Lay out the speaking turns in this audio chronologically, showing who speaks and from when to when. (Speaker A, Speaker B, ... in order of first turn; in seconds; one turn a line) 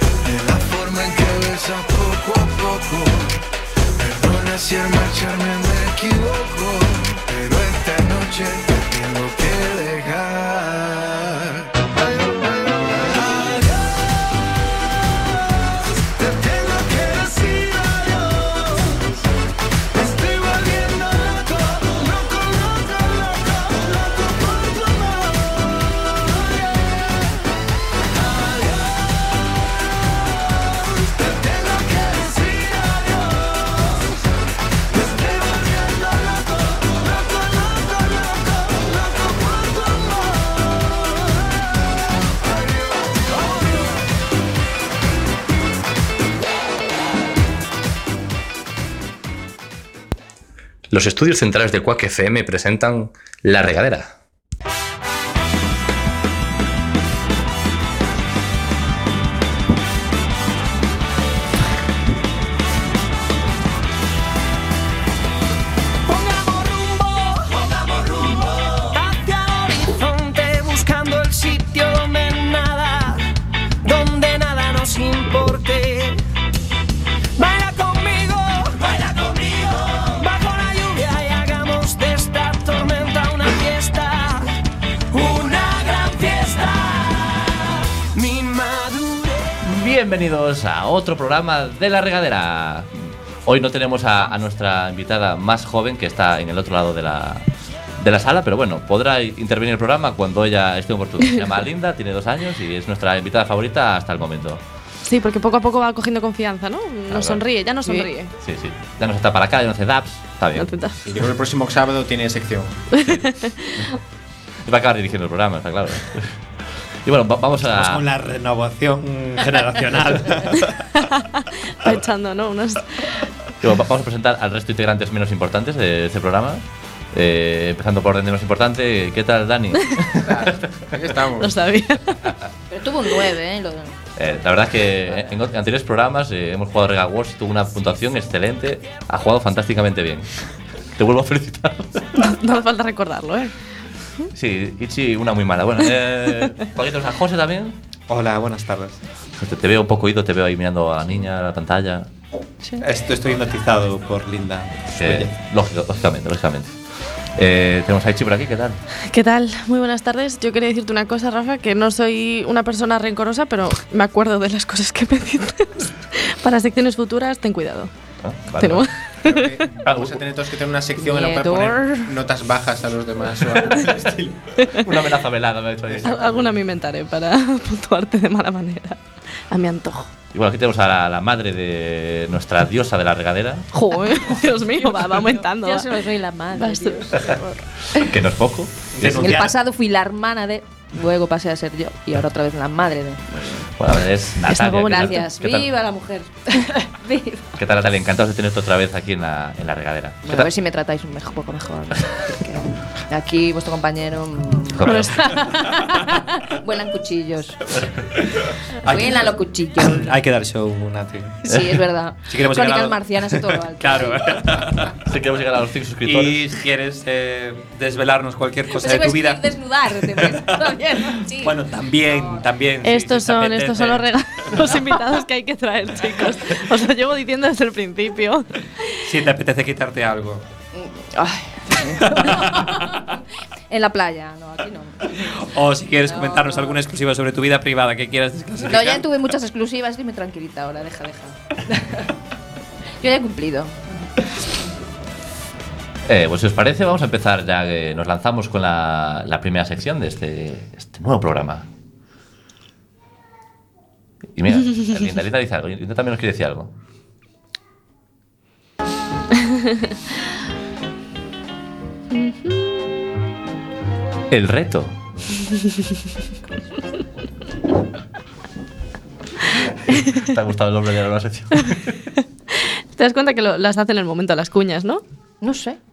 Speaker A: 0.2-14.2
Speaker A: 15.1-19.2
Speaker A: 19.9-27.4
Speaker A: 28.1-29.1
Speaker A: 30.2-34.2
Speaker A: 34.9-41.5
Speaker A: 42.3-44.0
Speaker B: 50.9-54.0
Speaker C: 66.1-73.3
Speaker C: 73.8-76.2
Speaker C: 77.4-84.5
Speaker C: 85.1-88.4
Speaker A: 88.2-89.4
Speaker D: 89.7-97.5
Speaker D: 98.0-104.6
Speaker E: 105.0-108.3
Speaker D: 107.1-107.4
Speaker F: 107.8-108.1
Speaker D: 108.4-110.8
Speaker E: 110.6-111.0
Speaker G: 111.0-112.8
Speaker E: 112.9-114.0
Speaker D: 113.0-113.3
Speaker D: 114.7-116.4
Speaker D: 117.0-118.0
Speaker H: 117.7-120.7
Speaker E: 120.9-123.3
Speaker D: 123.6-130.6
Speaker G: 130.1-131.5
Speaker E: 131.4-132.2
Speaker F: 132.7-134.0
Speaker D: 134.2-140.3
Speaker D: 141.0-142.1
Speaker E: 142.2-143.5
Speaker D: 144.3-147.8
Speaker H: 148.1-149.0
Speaker D: 149.4-152.1
Speaker H: 152.8-155.3
Speaker D: 154.9-156.8
Speaker D: 157.4-158.8
Speaker E: 159.1-167.9
Speaker D: 168.2-168.9
Speaker E: 168.6-169.5
Speaker G: 169.2-174.5
Speaker D: 169.8-170.2
Speaker F: 171.0-172.1
Speaker D: 174.8-176.4
Speaker E: 176.0-180.1
Speaker D: 180.3-183.7
Speaker E: 183.7-185.9
Speaker F: 184.8-187.4
Speaker E: 186.5-187.6
Speaker D: 187.9-189.2
Speaker H: 188.9-189.6
Speaker F: 189.0-193.6
Speaker D: 193.8-195.7
Speaker E: 194.5-195.2
Speaker F: 194.9-197.5
Speaker D: 197.6-200.5
Speaker F: 200.3-207.8
Speaker D: 204.7-205.2
Speaker E: 204.8-205.3
Speaker F: 208.8-210.2
Speaker H: 208.8-211.4
Speaker F: 211.4-214.7
Speaker H: 212.3-215.0
Speaker D: 215.1-216.5
Speaker H: 216.1-220.6
Speaker F: 218.7-222.5
Speaker H: 221.2-224.7
Speaker E: 222.8-228.9
Speaker H: 229.0-230.4
Speaker F: 230.7-235.5
Speaker H: 235.2-239.1
Speaker F: 236.0-236.8
Speaker F: 238.6-242.1
Speaker F: 243.0-244.1
Speaker D: 246.1-251.7
Speaker D: 254.4-256.7
Speaker E: 262.1-262.6
Speaker D: 264.3-264.9
Speaker D: 269.8-271.9
Speaker E: 272.6-275.0
Speaker F: 275.4-275.8